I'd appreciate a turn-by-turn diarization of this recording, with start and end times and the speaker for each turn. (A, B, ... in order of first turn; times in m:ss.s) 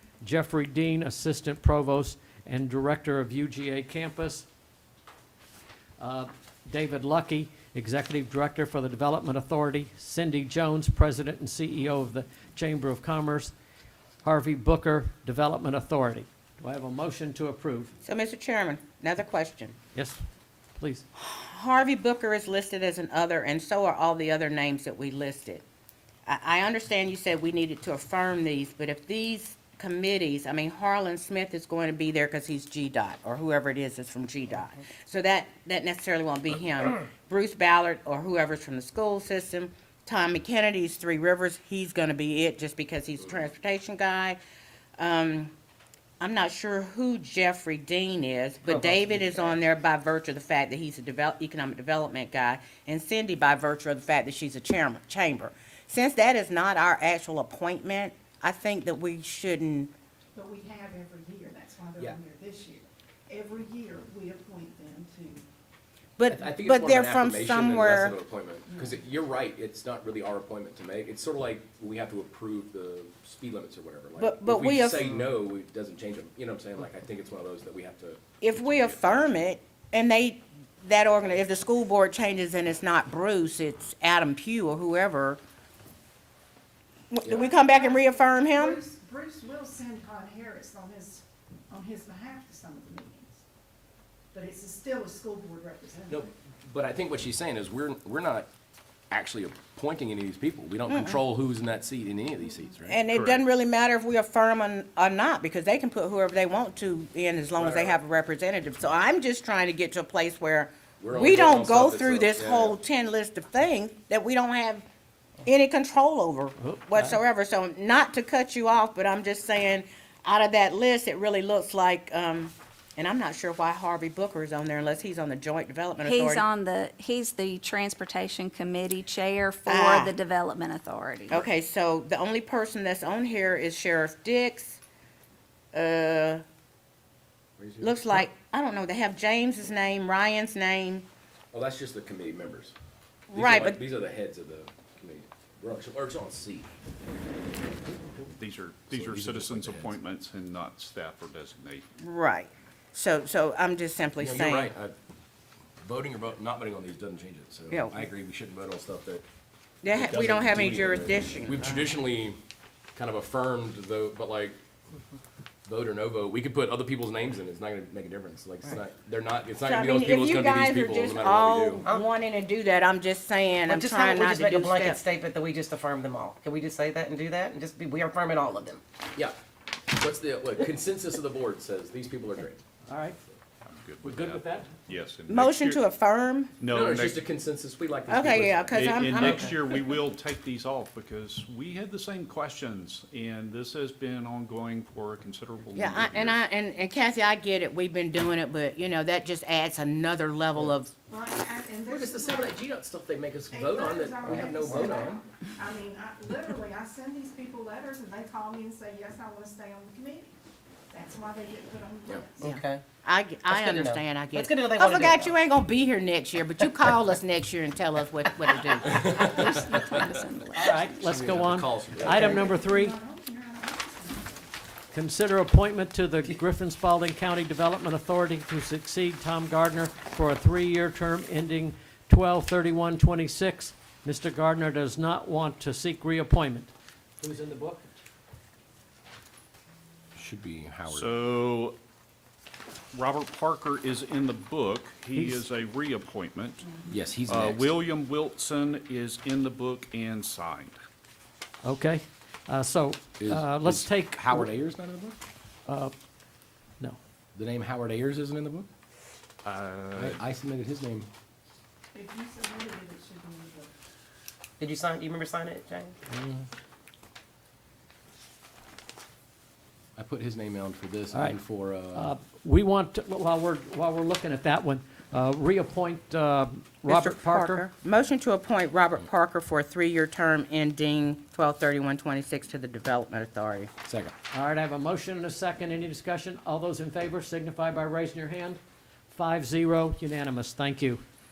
0:00.2-0:04.5 A
0:06.0-0:13.5 A
0:14.2-0:17.9 A
0:18.0-0:19.8 B
0:20.0-0:20.2 A
0:20.8-0:21.1 A
0:21.2-0:25.6 B
0:26.3-0:44.4 B
0:45.0-0:45.5 B
0:46.2-0:59.9 B
0:48.7-0:49.5 C
1:00.3-1:05.5 D
1:06.2-1:08.2 B
1:06.3-1:19.2 E
1:08.7-1:09.0 D
1:14.2-1:15.3 B
1:18.4-1:25.4 B
1:27.1-1:28.8 B
1:27.6-1:33.4 D
1:34.3-1:36.2 D
1:36.1-1:38.5 E
1:39.1-1:43.0 E
1:40.9-1:41.2 B
1:42.8-1:54.8 B
1:43.1-1:43.4 F
1:47.6-1:48.0 E
1:51.0-1:52.8 E
1:55.4-2:06.4 B
1:56.6-1:57.2 A
2:06.0-2:11.4 G
2:09.7-2:10.1 B
2:11.3-2:14.8 B
2:15.7-2:16.4 B
2:17.6-2:17.9 E
2:17.8-2:21.1 B
2:21.5-2:22.8 E
2:23.3-2:23.8 B
2:23.3-2:26.7 E
2:28.4-2:31.8 F
2:28.9-2:30.0 E
2:32.0-2:34.7 B
2:34.2-2:34.9 E
2:35.8-2:39.2 E
2:37.7-2:38.0 B
2:39.8-2:41.9 B
2:39.9-2:42.4 E
2:43.0-2:44.6 E
2:45.7-2:51.8 E
2:49.6-2:55.0 B
2:51.8-2:52.1 C
2:53.7-2:58.8 C
2:59.9-3:02.6 E
3:02.9-3:03.2 A
3:03.6-3:05.8 F
3:04.0-3:04.7 A
3:05.3-3:06.5 B
3:06.6-3:07.2 F
3:06.7-3:09.4 E
3:08.1-3:09.9 B
3:08.7-3:16.4 F
3:15.8-3:20.9 B
3:21.1-3:22.5 D
3:21.8-3:25.2 E
3:23.5-3:30.3 D
3:24.3-3:25.1 C
3:30.9-3:32.4 D
3:32.4-3:32.8 C
3:32.4-3:39.2 B
3:33.5-3:35.3 C
3:38.8-3:40.2 E
3:39.0-3:40.9 G
3:40.6-3:43.0 A
3:41.0-3:42.6 E
3:42.2-3:44.5 D
3:44.9-3:57.9 A
4:00.2-4:01.2 E
4:00.9-4:01.8 F
4:02.9-4:10.8 F
4:05.2-4:05.4 A
4:06.9-4:07.8 E
4:11.6-4:14.5 A
4:13.2-4:15.2 E
4:15.7-4:15.9 A
4:17.4-4:18.7 E
4:19.4-4:20.2 F
4:20.0-4:21.1 E
4:21.9-4:23.7 D
4:24.6-4:26.0 C
4:30.0-4:32.1 E
4:31.9-4:37.6 A
4:36.9-4:43.7 B
4:43.9-4:44.1 E
4:44.3-4:48.6 A
4:49.1-4:51.0 A